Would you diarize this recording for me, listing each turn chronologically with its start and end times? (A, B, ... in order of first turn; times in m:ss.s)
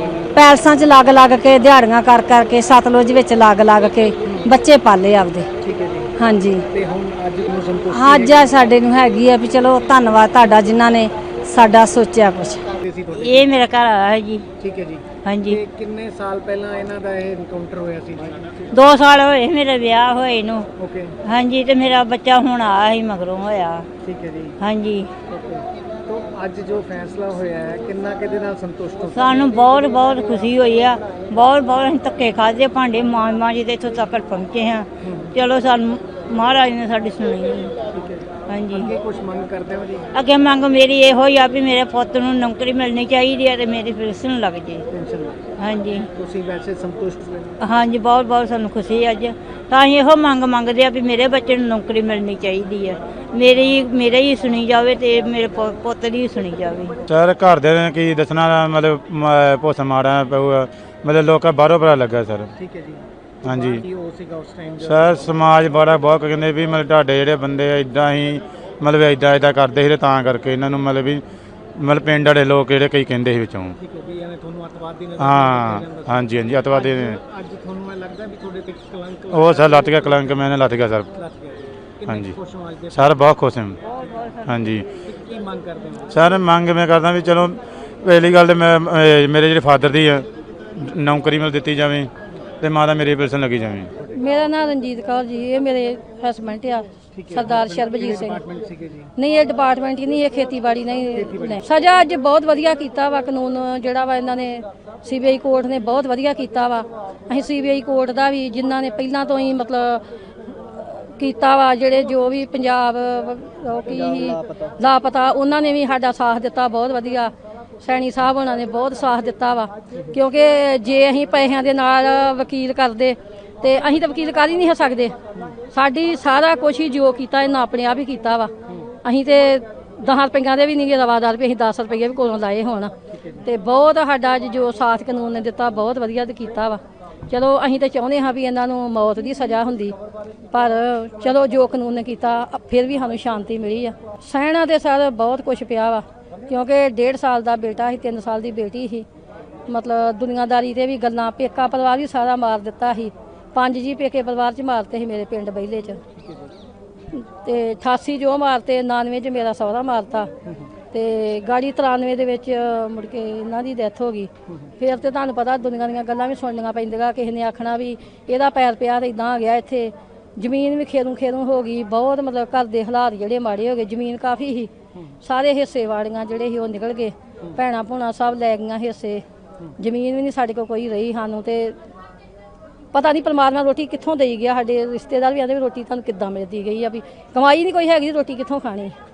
0:00.3-0:05.5 A
0:05.6-0:06.1 B
0:06.2-0:06.6 A
0:06.7-0:08.5 B
0:07.9-0:12.6 A
0:12.8-0:13.5 B
0:13.1-0:14.4 C
0:14.6-0:18.7 B
0:15.2-0:15.6 C
0:18.7-0:20.7 C
0:20.8-0:21.1 B
0:21.2-0:23.9 C
0:24.0-0:24.5 B
0:24.6-0:25.1 C
0:25.3-0:29.7 B
0:29.1-0:37.7 C
0:35.0-0:35.3 B
0:37.9-0:40.1 B
0:38.5-0:38.9 C
0:40.1-0:44.8 C
0:44.9-0:45.4 B
0:45.6-0:46.1 C
0:46.2-0:47.5 B
0:47.6-0:57.0 C
0:57.1-1:02.5 D
1:02.6-1:05.5 B
1:03.4-1:03.8 D
1:04.8-1:11.2 D
1:11.8-1:13.8 D
1:13.8-1:20.5 B
1:15.2-1:17.2 D
1:19.3-1:21.1 D
1:21.1-1:23.3 B
1:22.1-1:22.4 D
1:22.9-1:23.8 D
1:24.0-1:24.6 C
1:24.4-1:24.8 D
1:25.0-1:26.3 B
1:26.1-1:30.2 D
1:30.8-1:32.1 D
1:32.6-1:33.9 D
1:34.1-1:38.4 E
1:37.1-1:39.1 B
1:39.2-1:50.0 E
1:41.1-1:41.6 B
1:50.7-1:57.3 E
1:57.8-2:05.1 E
2:05.7-2:08.5 E
2:09.0-2:12.9 E
2:13.1-2:13.4 B
2:13.4-2:19.9 E
2:20.5-2:29.0 E
2:29.7-2:36.0 E
2:36.1-2:36.5 B
2:37.2-2:40.3 E
2:40.9-2:54.7 E
2:55.2-2:59.2 E
2:59.8-3:01.8 E
3:02.9-3:08.9 E